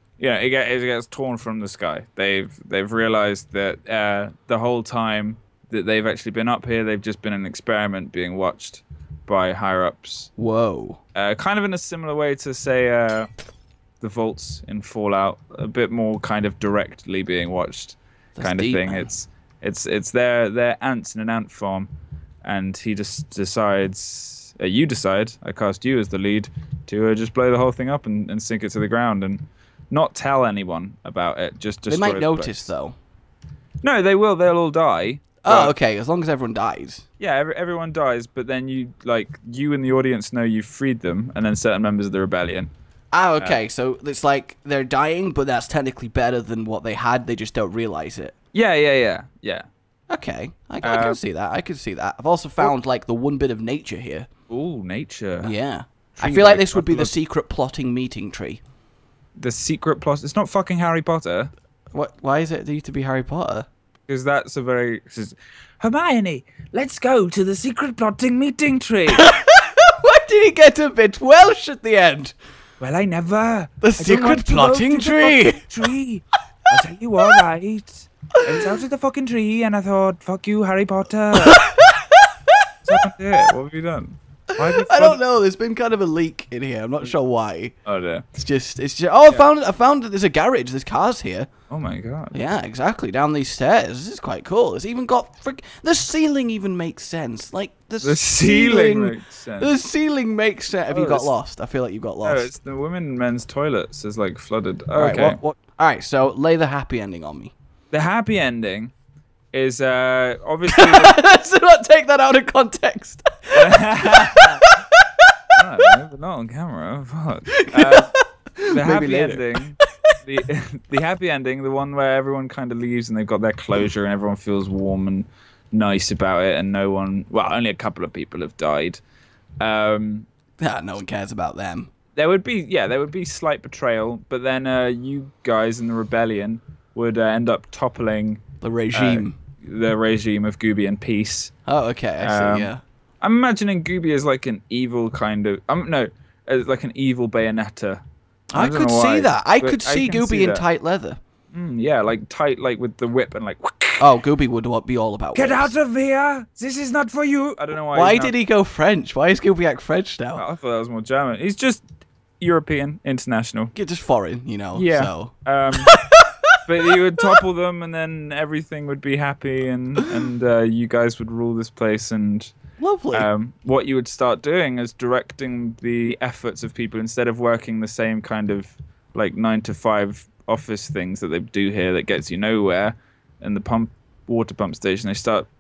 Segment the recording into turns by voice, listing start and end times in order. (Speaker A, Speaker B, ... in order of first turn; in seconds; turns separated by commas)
Speaker A: 0.2-10.3, Speaker B: 10.4-11.0, Speaker A: 11.1-13.3, Speaker A: 14.0-21.9, Speaker B: 18.4-19.1, Speaker A: 22.4-32.7, Speaker B: 31.9-32.9, Speaker A: 33.8-35.7, Speaker B: 35.4-37.0, Speaker A: 37.2-42.7, Speaker B: 43.1-48.3, Speaker A: 48.5-49.7, Speaker B: 50.1-54.3, Speaker A: 50.8-51.2, Speaker A: 54.5-55.5, Speaker B: 55.4-58.6, Speaker A: 56.1-57.1, Speaker A: 59.4-61.5, Speaker B: 61.9-63.7, Speaker A: 64.1-69.3, Speaker B: 69.1-72.3, Speaker A: 72.8-81.6, Speaker B: 73.8-75.6, Speaker B: 81.3-82.7, Speaker A: 82.8-85.2, Speaker B: 84.5-87.8, Speaker A: 87.8-88.2, Speaker B: 88.3-91.5, Speaker A: 91.7-92.4, Speaker B: 92.3-102.5, Speaker A: 98.0-99.7, Speaker A: 100.9-101.3, Speaker A: 102.2-105.4, Speaker B: 104.9-107.5, Speaker A: 107.9-108.9, Speaker A: 109.5-111.2, Speaker B: 110.7-115.3, Speaker A: 113.5-114.7, Speaker A: 115.5-118.1, Speaker B: 117.5-119.8, Speaker A: 118.7-129.0, Speaker A: 129.6-130.3, Speaker B: 130.6-131.9, Speaker A: 132.2-138.4, Speaker B: 138.6-139.4, Speaker A: 138.9-141.5, Speaker B: 141.7-142.8, Speaker A: 142.2-148.0, Speaker B: 148.5-151.2, Speaker A: 148.5-150.6, Speaker A: 151.5-154.1, Speaker B: 154.0-155.7, Speaker A: 155.3-158.3, Speaker B: 157.9-160.4, Speaker A: 160.3-161.9, Speaker A: 162.4-163.7, Speaker B: 163.8-166.6, Speaker A: 164.8-166.0, Speaker A: 166.7-172.5, Speaker B: 172.8-173.3, Speaker A: 173.1-185.5